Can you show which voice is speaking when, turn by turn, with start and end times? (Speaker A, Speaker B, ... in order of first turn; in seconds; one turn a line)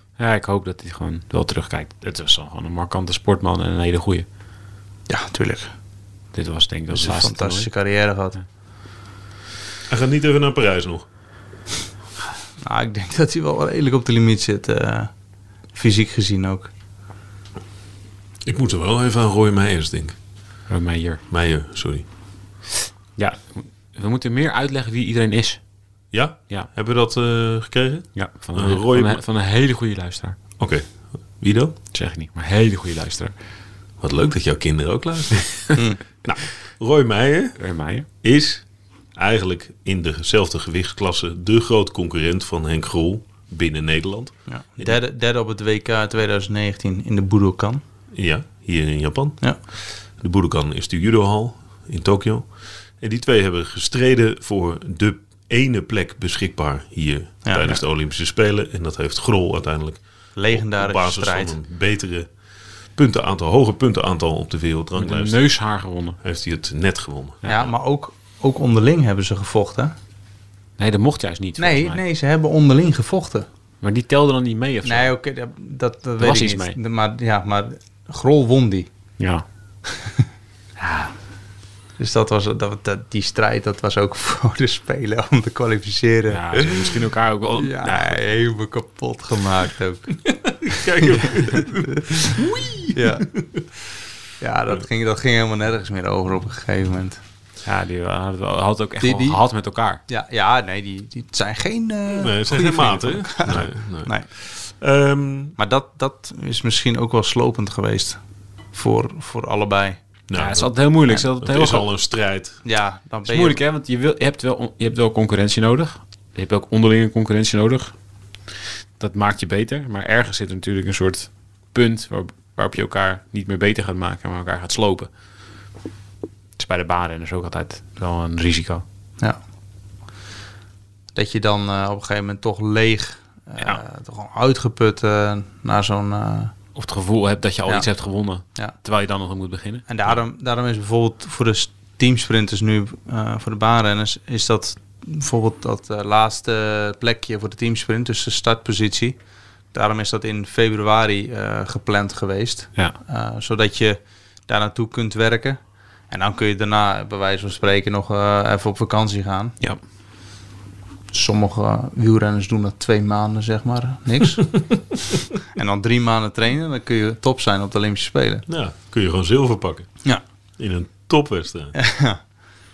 Speaker A: 0.2-4.3
Speaker B: 5.1-5.8
Speaker A: 6.3-7.7
Speaker B: 6.9-8.4
Speaker C: 9.9-11.1
Speaker B: 12.6-16.7
Speaker C: 18.4-20.2
Speaker A: 20.7-21.2
Speaker C: 21.3-22.0
Speaker A: 23.1-25.7
Speaker C: 26.1-29.2
Speaker A: 28.1-30.4
Speaker C: 30.6-31.8
Speaker A: 31.9-33.3
Speaker C: 34.0-37.6
Speaker B: 35.7-36.0
Speaker A: 37.6-38.1
Speaker C: 38.2-45.0
Speaker B: 44.5-47.8
Speaker C: 48.1-65.5
Speaker B: 60.3-61.5
Speaker A: 65.0-66.2
Speaker C: 66.2-67.7
Speaker B: 67.4-69.9
Speaker A: 70.8-72.0
Speaker B: 71.6-73.5
Speaker A: 73.8-75.1
Speaker B: 74.8-78.9
Speaker A: 76.2-76.8
Speaker A: 79.2-79.4
Speaker A: 80.8-81.1
Speaker B: 82.0-86.9
Speaker A: 86.3-88.2
Speaker B: 87.6-90.3
Speaker C: 90.3-93.6
Speaker B: 92.9-93.4
Speaker B: 94.4-97.2
Speaker A: 97.6-100.0
Speaker B: 99.0-99.4
Speaker B: 100.1-104.3
Speaker C: 102.1-105.6
Speaker B: 105.6-108.2
Speaker B: 108.7-110.0
Speaker C: 110.3-112.6
Speaker A: 110.3-111.9
Speaker B: 112.6-113.6
Speaker A: 113.2-118.0
Speaker A: 119.0-125.1
Speaker A: 126.6-128.8
Speaker B: 131.1-136.5
Speaker A: 136.7-139.8
Speaker B: 138.4-138.7
Speaker B: 139.9-159.6
Speaker B: 161.1-164.8
Speaker B: 165.6-168.4
Speaker C: 168.5-170.0
Speaker C: 170.6-171.7
Speaker B: 171.8-172.3